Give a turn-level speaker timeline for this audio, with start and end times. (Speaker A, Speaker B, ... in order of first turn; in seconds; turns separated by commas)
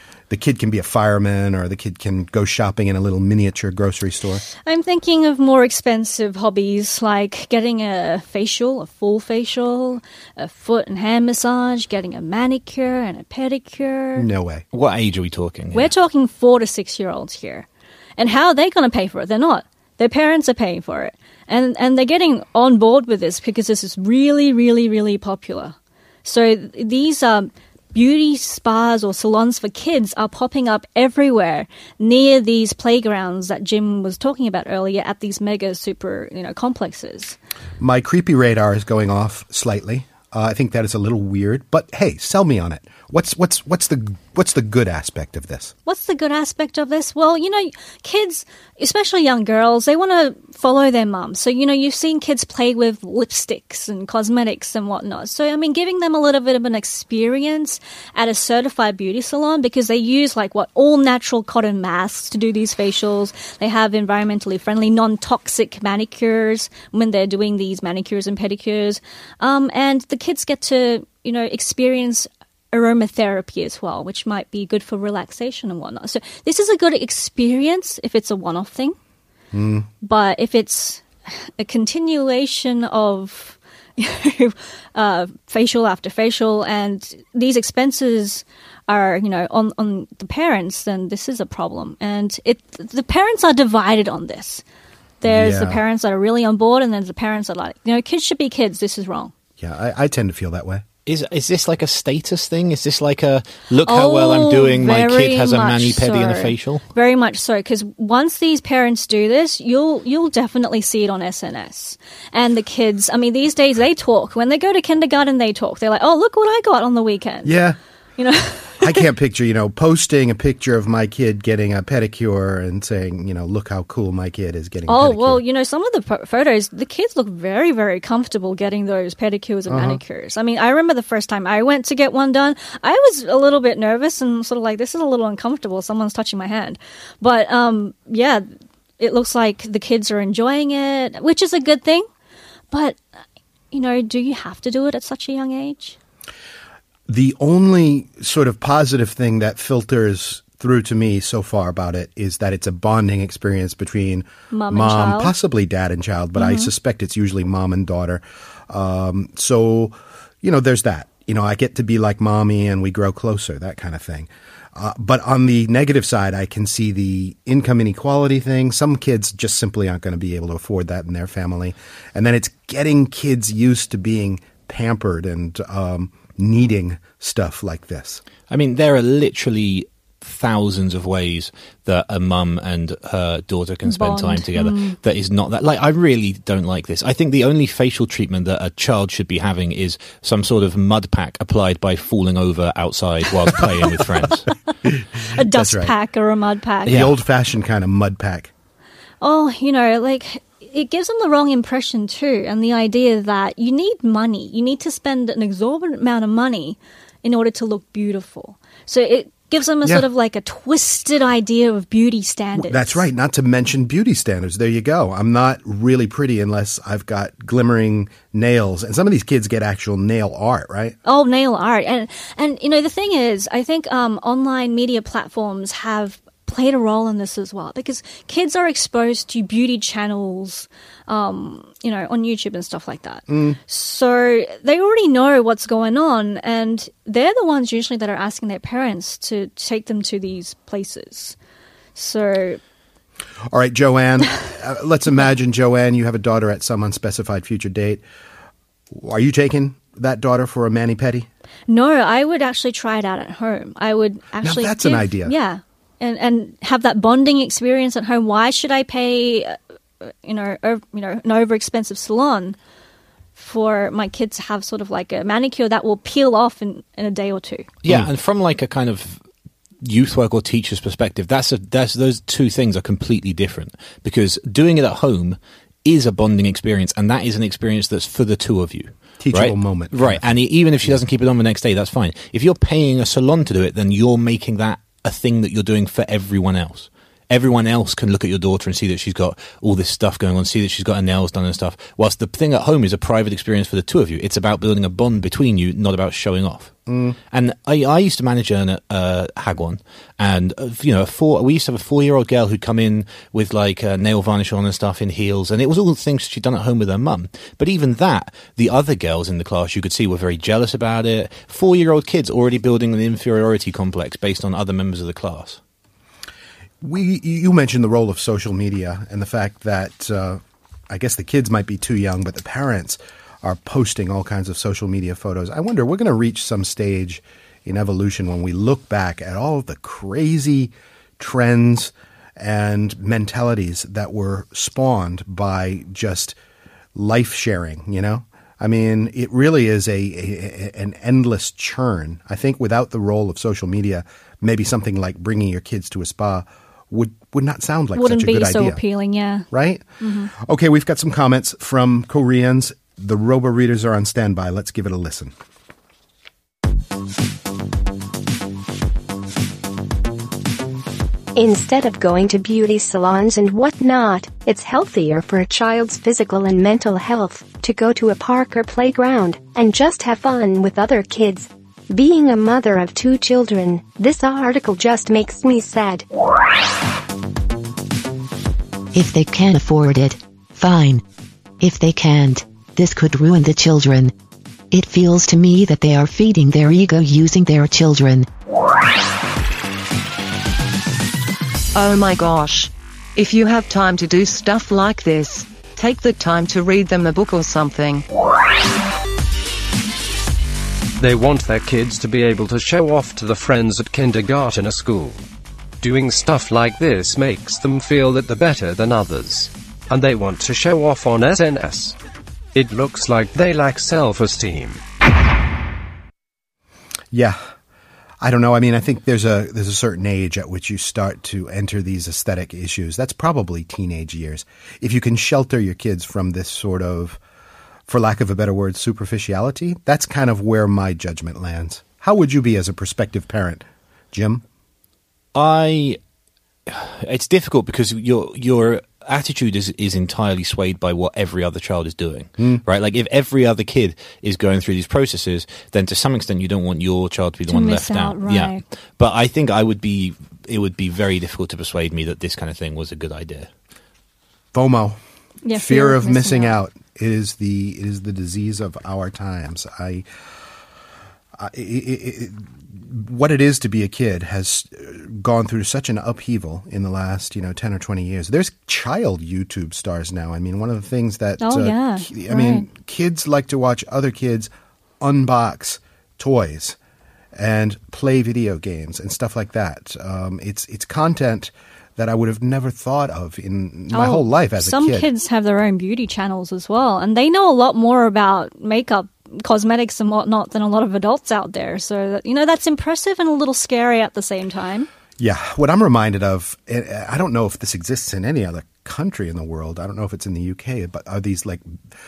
Speaker A: 0.3-4.4, Speaker B: 4.6-14.3, Speaker A: 14.2-14.6, Speaker C: 14.7-15.9, Speaker B: 15.7-17.7, Speaker B: 18.2-37.4, Speaker A: 37.8-45.7, Speaker B: 45.9-79.0, Speaker A: 79.5-79.9, Speaker B: 80.0-94.6, Speaker B: 95.2-99.3, Speaker A: 95.2-95.8, Speaker A: 99.6-100.8, Speaker C: 101.0-106.8, Speaker B: 103.8-117.5, Speaker A: 117.4-117.8, Speaker B: 118.2-119.0, Speaker A: 118.8-125.4, Speaker B: 124.9-138.4, Speaker A: 129.7-130.0, Speaker B: 139.0-142.1, Speaker B: 142.7-143.0, Speaker B: 143.7-146.0, Speaker A: 147.1-178.2, Speaker B: 154.5-155.3, Speaker B: 156.3-156.7, Speaker C: 178.5-194.5, Speaker B: 183.8-185.0, Speaker A: 194.8-195.9, Speaker B: 195.3-196.9, Speaker C: 196.8-197.1, Speaker A: 196.8-198.5, Speaker B: 199.2-213.0, Speaker A: 212.6-221.0, Speaker B: 221.0-241.3, Speaker A: 233.3-233.6, Speaker B: 241.9-242.6, Speaker A: 243.5-248.0, Speaker A: 248.9-251.3, Speaker B: 251.7-259.6, Speaker A: 254.4-255.3, Speaker B: 260.2-262.6, Speaker B: 263.4-267.7, Speaker C: 267.8-269.2, Speaker C: 269.8-296.7, Speaker A: 279.2-280.2, Speaker A: 296.9-297.2, Speaker C: 297.3-315.6, Speaker A: 316.8-336.4, Speaker A: 336.9-348.8, Speaker B: 347.9-349.5, Speaker A: 349.5-355.3, Speaker B: 350.0-350.3, Speaker D: 361.4-376.0, Speaker E: 378.9-381.0, Speaker E: 381.6-384.1, Speaker E: 384.7-388.3, Speaker F: 391.7-398.0, Speaker G: 401.0-405.2, Speaker G: 405.8-412.0, Speaker G: 412.5-414.8, Speaker A: 417.1-417.4, Speaker A: 418.2-427.2, Speaker A: 427.9-434.4, Speaker C: 435.3-436.0, Speaker C: 436.7-453.5, Speaker B: 447.5-448.6, Speaker A: 454.5-455.0, Speaker B: 455.4-456.6, Speaker A: 455.5-460.1, Speaker A: 461.4-476.8, Speaker B: 471.4-472.7, Speaker A: 477.3-485.1, Speaker B: 483.9-494.9, Speaker A: 495.2-501.6